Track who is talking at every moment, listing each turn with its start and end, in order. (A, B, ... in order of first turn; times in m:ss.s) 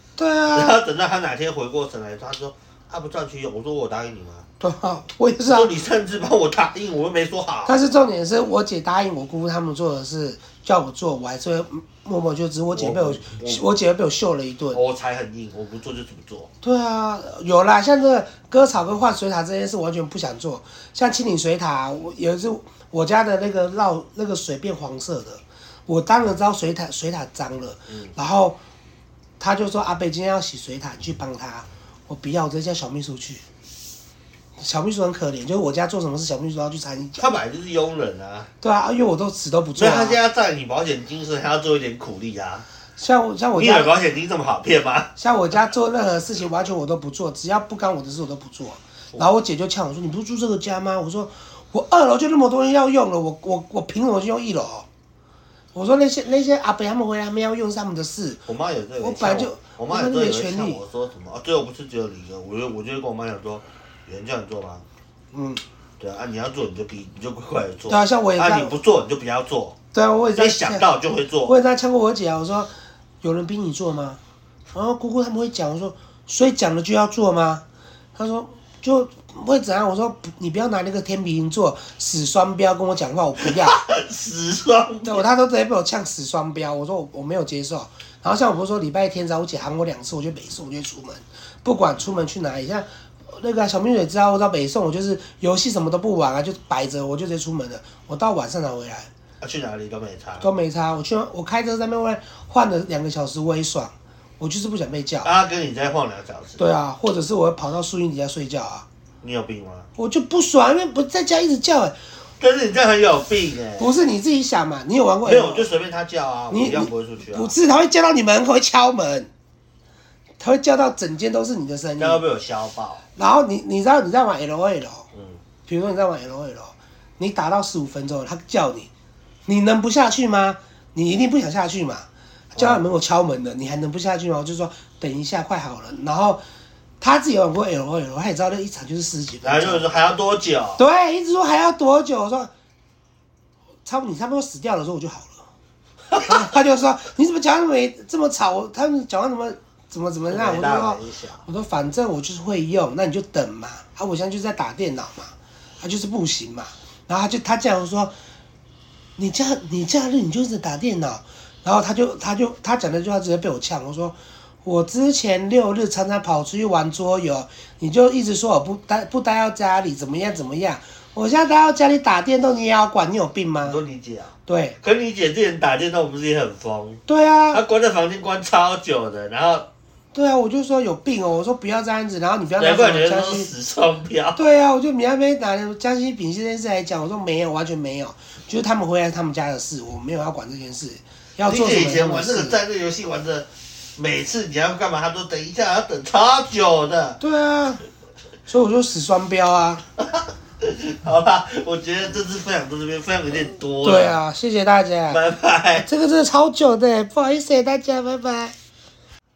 0:00.2-0:00.8 A
0:00.5-0:04.5 B
0:04.6-0:05.7 A
0:05.5-0:07.8 B
0:07.7-0:14.8 A
0:12.7-0:13.6 B
0:14.7-0:16.5 B
0:16.6-0:28.6 A
0:29.4-0:33.4 A
0:34.6-0:37.3 A
0:37.2-0:38.5 B
0:38.6-0:40.2 A
0:39.8-0:42.6 B
0:43.0-0:43.9 A
0:43.5-0:45.1 B
0:45.2-0:54.9 A
0:55.8-0:58.4 A
0:58.5-1:04.8 B
0:59.0-1:00.8 A
1:05.3-1:05.6 A
1:06.0-1:09.8 B
1:07.9-1:08.7 A
1:09.9-1:10.9 A
1:10.4-1:11.6 B
1:11.4-1:14.2 A
1:14.7-1:23.8 A
1:23.4-1:25.2 B
1:25.0-1:39.1 A
1:39.4-1:40.5 B
1:40.4-1:45.3 A
1:45.2-1:46.6 B
1:46.6-1:48.8 A
1:49.2-1:49.9 B
1:50.0-1:52.0 A
1:52.4-1:53.9 B
1:53.8-1:55.7 A
1:55.2-1:57.5 B
1:56.5-1:59.3 A
2:00.4-2:02.2 A
2:02.0-2:03.0 B
2:03.2-2:05.1 A
2:05.1-2:05.4 B
2:05.7-2:08.9 A
2:09.5-2:16.4 A
2:12.6-2:12.8 B
2:17.0-2:19.9 A
2:19.4-2:20.8 B
2:20.8-2:22.5 A
2:23.8-2:25.4 A
2:26.2-2:38.1 A
2:30.3-2:31.4 B
2:39.2-2:53.8 A
2:53.6-2:59.7 B
2:54.5-2:54.8 A
2:57.1-2:57.6 A
3:00.2-3:03.5 A
3:02.6-3:04.4 B
3:04.4-3:12.6 A
3:11.5-3:17.2 B
3:17.2-3:17.8 A
3:18.5-3:19.8 A
3:20.0-3:24.2 B
3:23.8-3:25.2 A
3:25.1-3:25.9 B
3:25.8-3:28.6 A